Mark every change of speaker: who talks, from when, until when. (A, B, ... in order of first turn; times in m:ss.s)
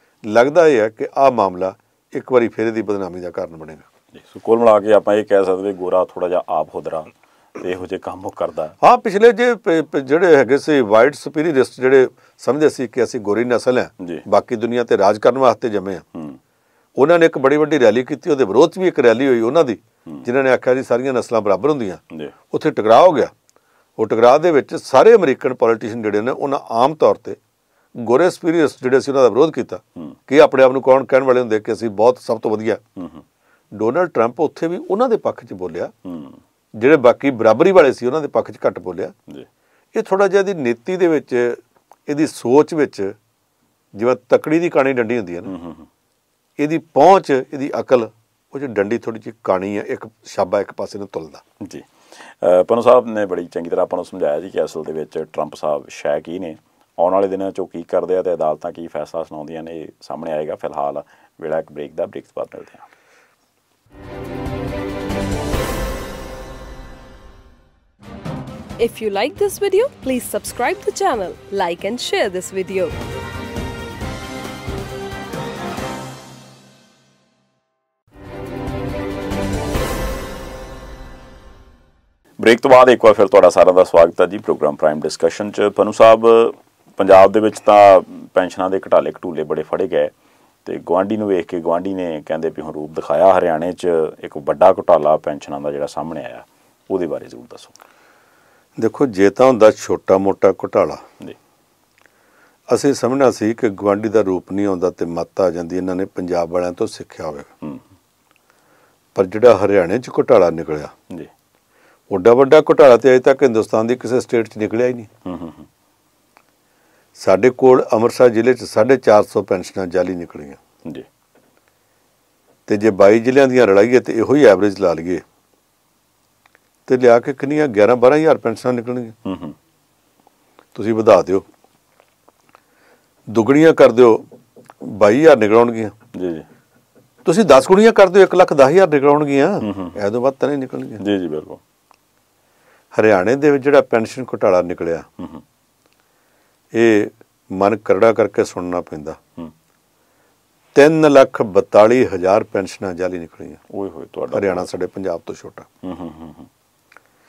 0:00.2-0:03.9 A
0:04.1-0:08.7 B
0:08.8-0:16.0 A
0:14.0-0:14.2 B
0:16.1-0:16.4 B
0:17.0-0:23.3 A
0:24.0-0:27.4 A
0:28.0-0:32.8 A
0:33.0-0:33.2 B
0:33.7-0:35.9 A
0:36.0-0:36.4 B
0:36.8-0:39.1 A
0:39.9-0:43.2 A
0:44.0-0:45.5 A
0:45.4-0:45.9 B
0:46.6-0:51.4 A
0:51.6-1:02.9 B
1:08.8-1:12.9 C
1:22.4-1:30.1 B
1:30.6-1:37.8 B
1:38.8-1:41.0 A
1:42.7-1:47.5 A
1:49.2-1:50.9 A
1:52.1-1:55.1 A
1:55.2-1:55.7 B
1:57.2-2:00.6 A
2:02.7-2:05.2 A
2:06.9-2:09.2 A
2:09.2-2:09.6 B
2:10.8-2:11.4 A
2:13.3-2:14.2 A
2:14.8-2:15.9 A
2:16.1-2:16.5 B
2:17.2-2:21.0 A
2:19.6-2:20.0 B
2:21.0-2:21.6 B
2:22.9-2:25.1 A
2:25.2-2:25.4 B
2:26.7-2:29.2 A
2:30.8-2:33.6 A
2:33.7-2:34.7 B
2:34.3-2:35.7 A
2:35.8-2:36.5 B